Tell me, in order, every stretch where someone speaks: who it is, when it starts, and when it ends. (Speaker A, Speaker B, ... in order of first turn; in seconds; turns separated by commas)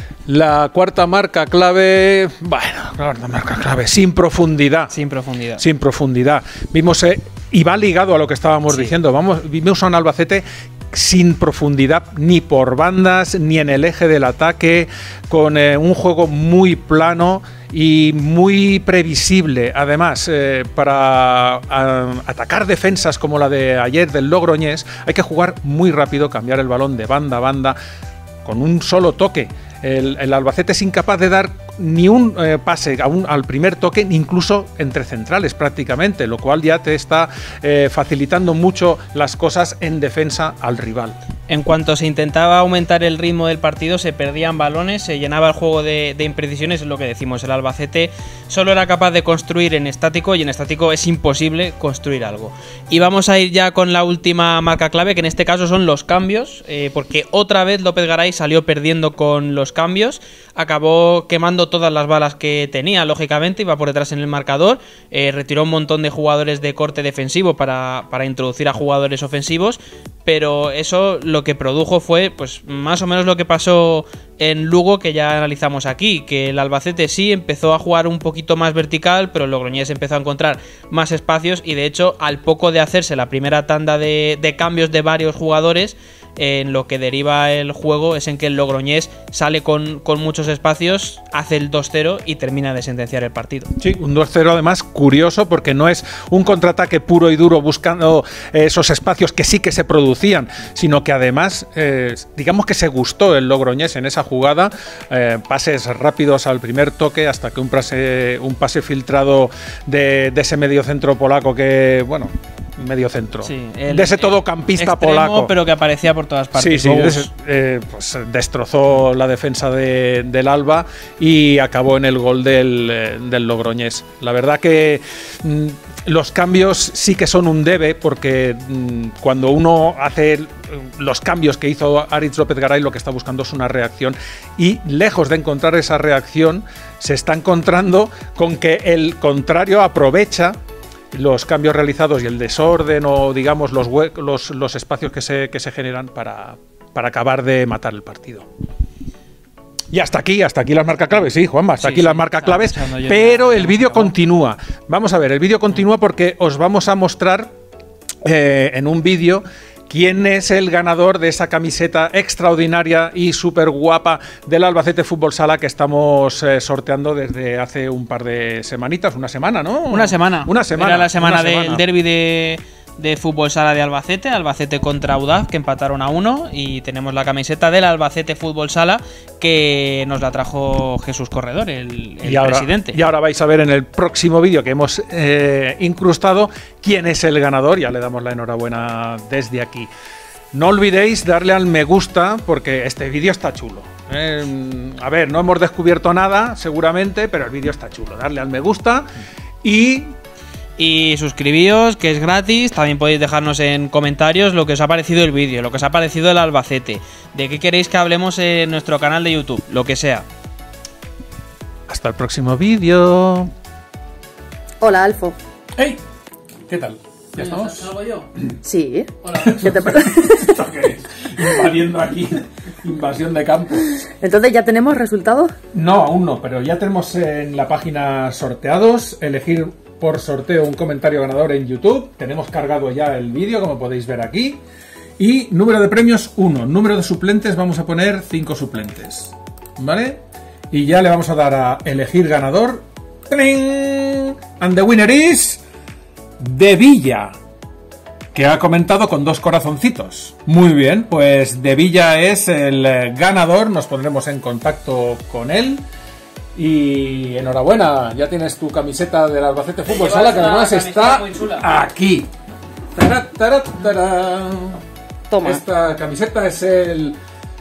Speaker A: 0.3-4.9, Speaker B: 4.9-5.6, Speaker A: 5.6-27.8, Speaker A: 28.4-41.2, Speaker B: 41.5-93.7, Speaker A: 93.8-115.5, Speaker B: 113.4-117.3, Speaker A: 116.5-140.6, Speaker A: 141.1-148.4, Speaker A: 149.9-157.5, Speaker B: 151.8-154.1, Speaker A: 158.2-171.8, Speaker B: 169.9-183.0, Speaker A: 182.2-189.9, Speaker A: 190.5-199.1, Speaker A: 199.6-200.1, Speaker B: 200.8-210.2, Speaker A: 211.9-213.5, Speaker C: 214.8-215.4, Speaker A: 216.7-217.9, Speaker B: 217.4-218.3, Speaker C: 218.6-220.5, Speaker B: 219.2-219.6, Speaker A: 219.4-224.0, Speaker C: 224.2-225.5, Speaker A: 225.7-234.6, Speaker A: 235.2-240.2, Speaker A: 240.7-245.6, Speaker A: 246.4-247.3, Speaker A: 248.3-255.8, Speaker A: 256.5-262.3, Speaker B: 259.9-261.6, Speaker A: 262.9-264.8, Speaker C: 265.3-265.6, Speaker A: 265.4-267.1